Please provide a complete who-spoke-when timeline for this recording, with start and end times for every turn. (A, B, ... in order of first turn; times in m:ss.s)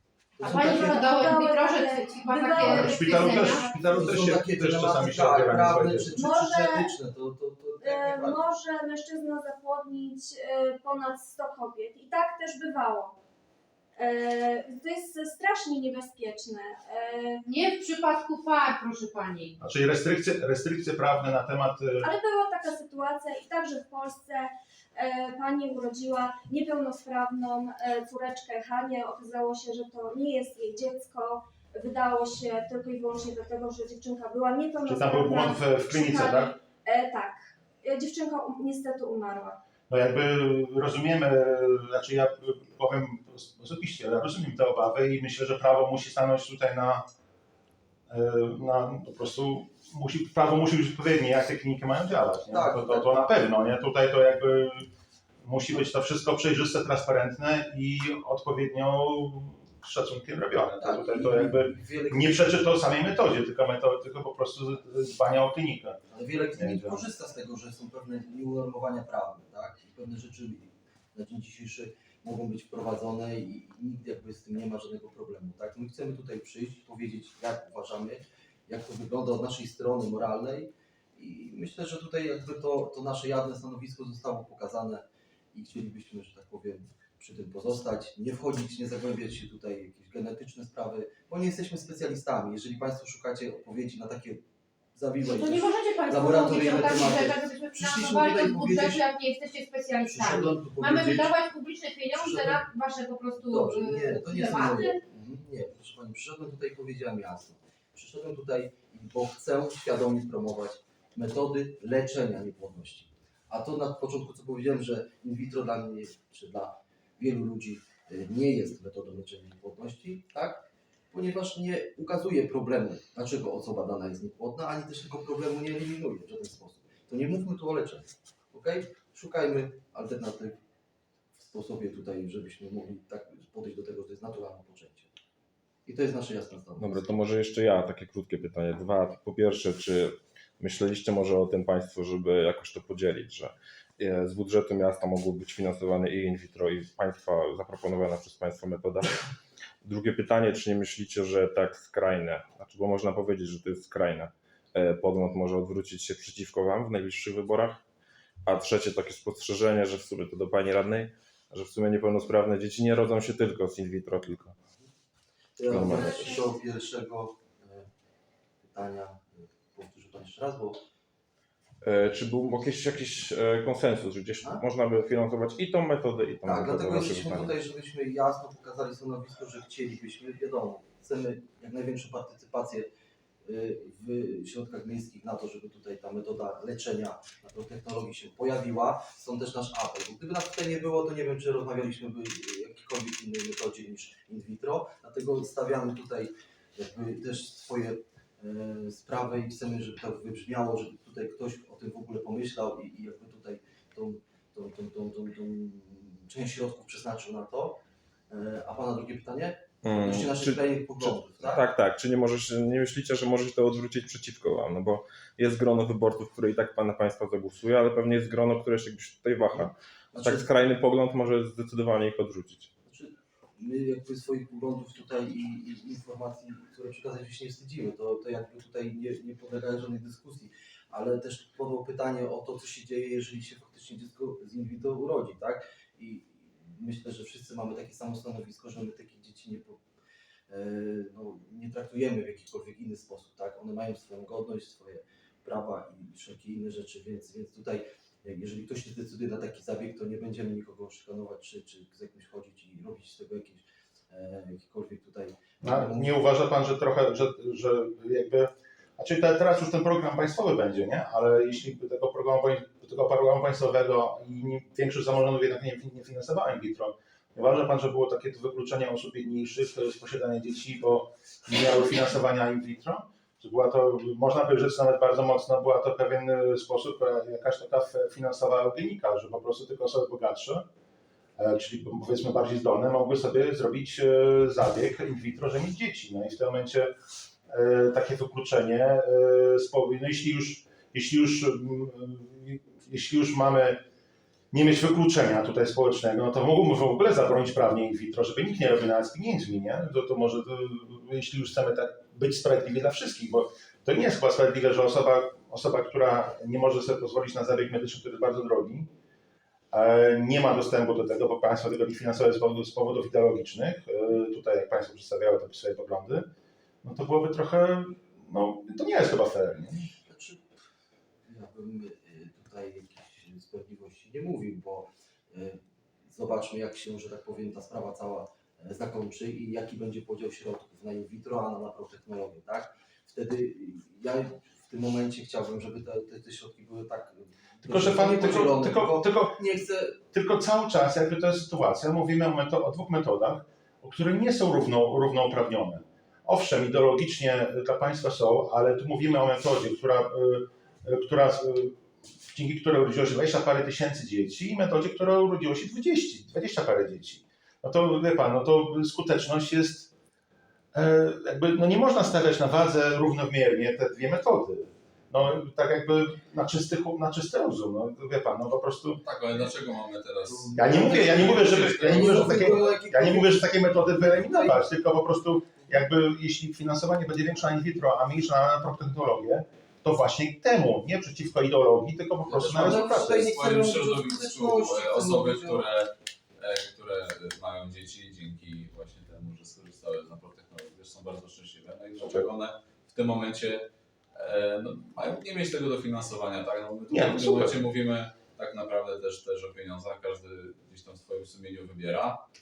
0:00.4-0:01.4 A
0:00.4-0:03.6 B
0:00.5-0:04.1 C
0:02.6-0:06.1 D
0:03.9-0:08.5 A
0:06.2-0:06.9 C
0:07.8-0:13.2 C
0:14.0-0:17.4 C
0:17.5-0:19.6 B
0:19.6-0:22.1 D
0:22.0-0:39.6 C
0:34.9-0:36.5 D
0:39.9-0:47.1 D
0:48.1-0:54.9 D
0:52.5-0:53.3 A
0:55.4-1:06.0 D
1:00.8-1:02.6 A
1:06.1-1:34.4 A
1:06.6-1:07.0 D
1:35.0-1:39.0 A
1:35.3-1:45.0 B
1:40.0-1:41.3 A
1:42.1-1:42.6 A
1:43.4-2:10.6 A
2:11.4-2:15.1 A
2:15.9-2:17.3 A
2:16.8-2:29.1 E
2:29.8-2:37.8 E
2:38.4-2:44.6 E
2:45.6-2:47.9 A
2:45.7-2:46.4 E
2:46.0-2:46.5 C
2:48.6-2:50.8 A
2:51.8-2:57.6 E
2:56.4-3:02.9 A
3:03.4-3:27.8 A
3:28.3-3:31.7 A
3:29.8-3:42.7 E
3:39.5-3:40.5 A
3:42.9-3:59.8 A
4:00.5-4:16.1 A
4:15.6-4:40.6 D
4:41.4-4:53.8 D
4:54.5-5:08.9 D
5:09.7-5:16.3 D
5:16.8-5:19.9 D
5:20.1-5:20.5 A
5:21.3-5:40.0 A
5:37.6-5:39.4 D
5:40.1-5:59.9 D
6:00.7-6:09.0 D
6:09.0-6:12.7 F
6:10.3-6:14.6 A
6:10.5-6:23.3 D
6:22.3-6:42.2 F
6:22.5-6:25.6 A
6:32.0-6:32.2 D
6:36.9-6:37.6 D